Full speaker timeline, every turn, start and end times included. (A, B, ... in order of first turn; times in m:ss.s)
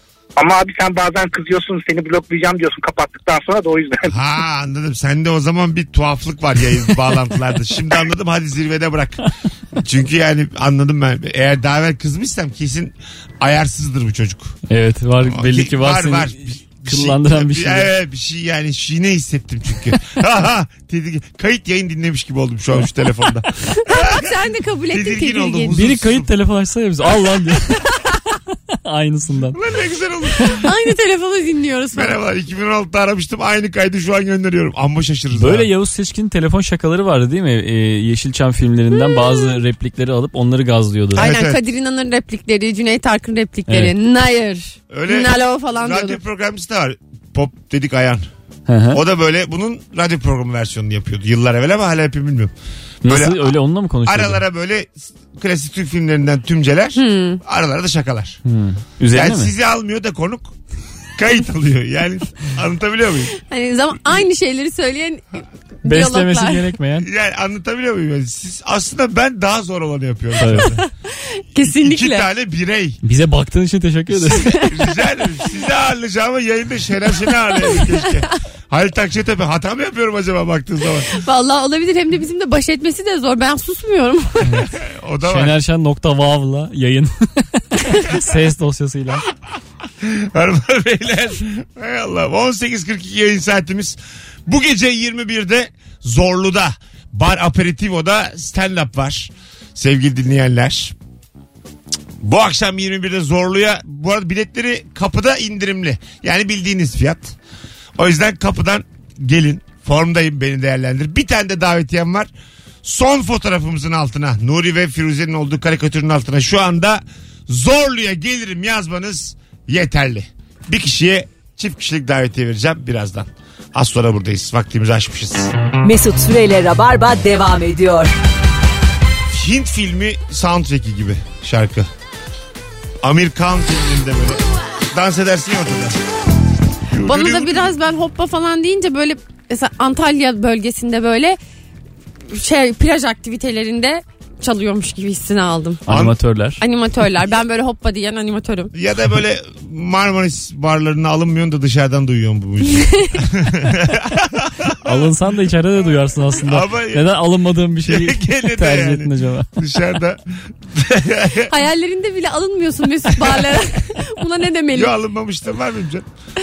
0:00.4-0:04.1 A
0:04.1-0:14.6 B
0:14.7-0:17.9 C
0:15.2-0:24.3 B
0:23.8-0:25.8 D
0:24.9-0:26.3 B
0:25.8-0:28.0 C
0:28.7-0:29.6 C
0:29.5-0:30.6 B
0:30.5-0:32.2 D
0:31.9-0:35.7 B
0:35.3-0:41.3 C
0:39.0-0:39.5 D
0:41.2-0:41.6 B
0:41.2-0:46.2 D
0:43.7-0:43.9 C
0:44.9-0:48.3 B
0:48.7-0:49.0 C
0:48.9-0:52.5 B
0:53.0-0:53.5 B
0:53.0-0:54.4 C
0:54.1-0:58.4 B
0:57.0-0:57.4 D
0:58.5-0:59.5 C
0:59.1-1:00.6 B
1:01.2-1:03.3 B
1:03.4-1:06.6 D
1:05.8-1:07.1 C
1:07.0-1:10.8 B
1:10.4-1:10.7 C
1:10.7-1:12.3 D
1:11.6-1:13.0 B
1:13.0-1:14.5 C
1:14.1-1:21.1 B
1:14.4-1:14.7 D
1:17.7-1:18.0 D
1:21.1-1:24.6 D
1:24.4-1:24.7 C
1:24.7-1:25.6 B
1:25.2-1:29.2 C
1:30.0-1:41.0 B
1:42.2-1:47.4 B
1:48.0-1:52.3 B
1:52.8-2:05.5 B
2:05.8-2:08.1 E
2:09.3-2:11.9 B
2:13.0-2:16.0 B
2:16.9-2:17.7 B
2:17.0-2:21.4 D
2:22.3-2:25.8 D
2:25.9-2:26.6 C
2:25.9-2:26.1 B
2:26.6-2:28.7 D
2:28.7-2:35.0 B
2:32.8-2:33.2 D
2:34.8-2:39.5 C
2:36.4-2:37.2 B
2:37.8-2:41.5 B
2:41.5-2:44.9 D
2:44.7-2:46.1 B